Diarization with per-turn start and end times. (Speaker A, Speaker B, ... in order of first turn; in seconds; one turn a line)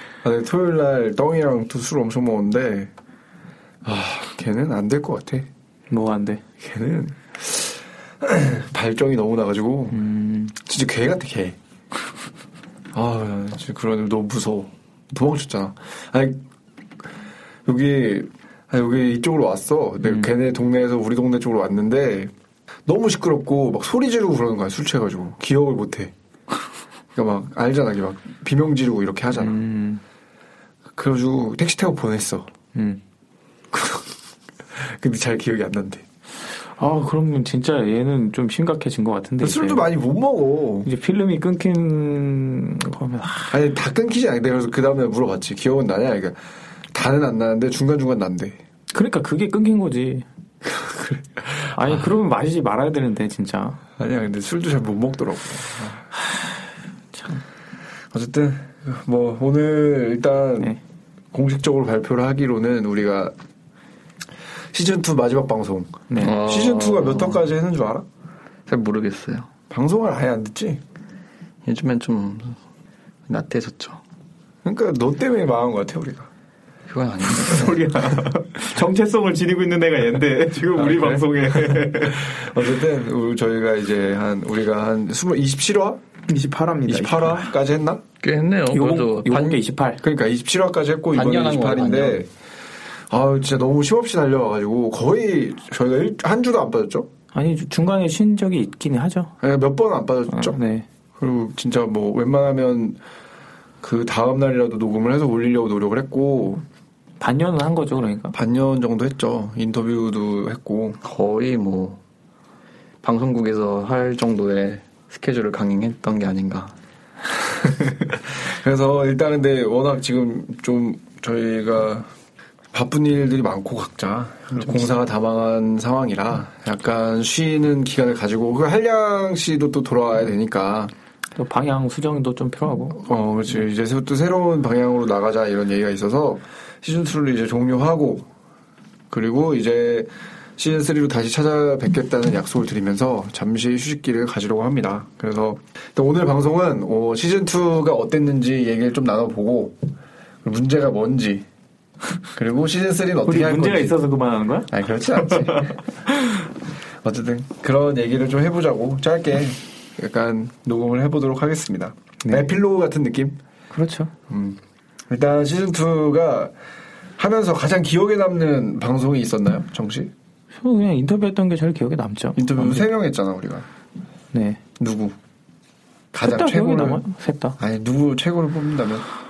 Speaker A: 0.2-2.9
Speaker A: 3.8-5.5
Speaker B: 5.9-6.4
Speaker A: 6.6-10.1
Speaker B: 9.9-10.6
Speaker A: 10.6-11.6
Speaker A: 12.9-16.4
Speaker A: 17.7-22.3
Speaker B: 20.0-20.3
Speaker A: 22.9-26.1
Speaker A: 27.1-29.6
Speaker B: 29.4-30.0
Speaker A: 31.0-32.5
Speaker B: 32.8-33.0
Speaker A: 33.7-34.1
Speaker A: 34.8-36.0
Speaker B: 36.8-39.9
Speaker A: 39.4-40.9
Speaker B: 40.8-43.6
Speaker A: 43.5-46.4
Speaker A: 46.9-48.6
Speaker B: 48.9-50.3
Speaker A: 50.9-51.6
Speaker B: 51.7-53.8
Speaker A: 54.0-56.1
Speaker B: 56.1-57.4
Speaker A: 58.1-60.8
Speaker A: 61.3-63.4
Speaker A: 64.7-68.0
Speaker C: 66.2-67.4
Speaker C: 68.7-69.5
Speaker A: 69.7-70.8
Speaker C: 71.7-72.6
Speaker C: 73.3-74.0
Speaker A: 74.6-76.3
Speaker C: 76.9-77.8
Speaker B: 77.4-82.3
Speaker A: 77.7-78.3
Speaker A: 80.7-86.0
Speaker B: 86.3-87.5
Speaker A: 86.9-88.0
Speaker C: 88.2-89.6
Speaker B: 88.7-90.0
Speaker A: 90.0-92.3
Speaker C: 91.1-92.2
Speaker A: 93.1-97.1
Speaker B: 97.3-99.3
Speaker A: 99.4-100.6
Speaker B: 100.3-100.9
Speaker A: 101.2-103.0
Speaker A: 103.8-106.6
Speaker B: 107.2-108.4
Speaker A: 108.3-111.0
Speaker C: 111.0-112.0
Speaker C: 113.0-116.7
Speaker A: 117.6-122.1
Speaker A: 122.7-130.9
Speaker B: 131.4-133.1
Speaker A: 133.0-138.3
Speaker A: 139.1-149.8
Speaker A: 150.4-151.5
Speaker A: 152.3-154.0
Speaker B: 153.2-155.7
Speaker A: 154.7-155.8
Speaker A: 157.0-163.4
Speaker B: 163.7-164.1
Speaker A: 164.3-166.5
Speaker A: 167.2-170.1
Speaker B: 170.6-172.9
Speaker A: 172.4-173.7
Speaker B: 174.3-174.6
Speaker A: 174.8-175.2
Speaker A: 176.1-177.0
Speaker B: 176.2-177.6
Speaker A: 177.6-179.1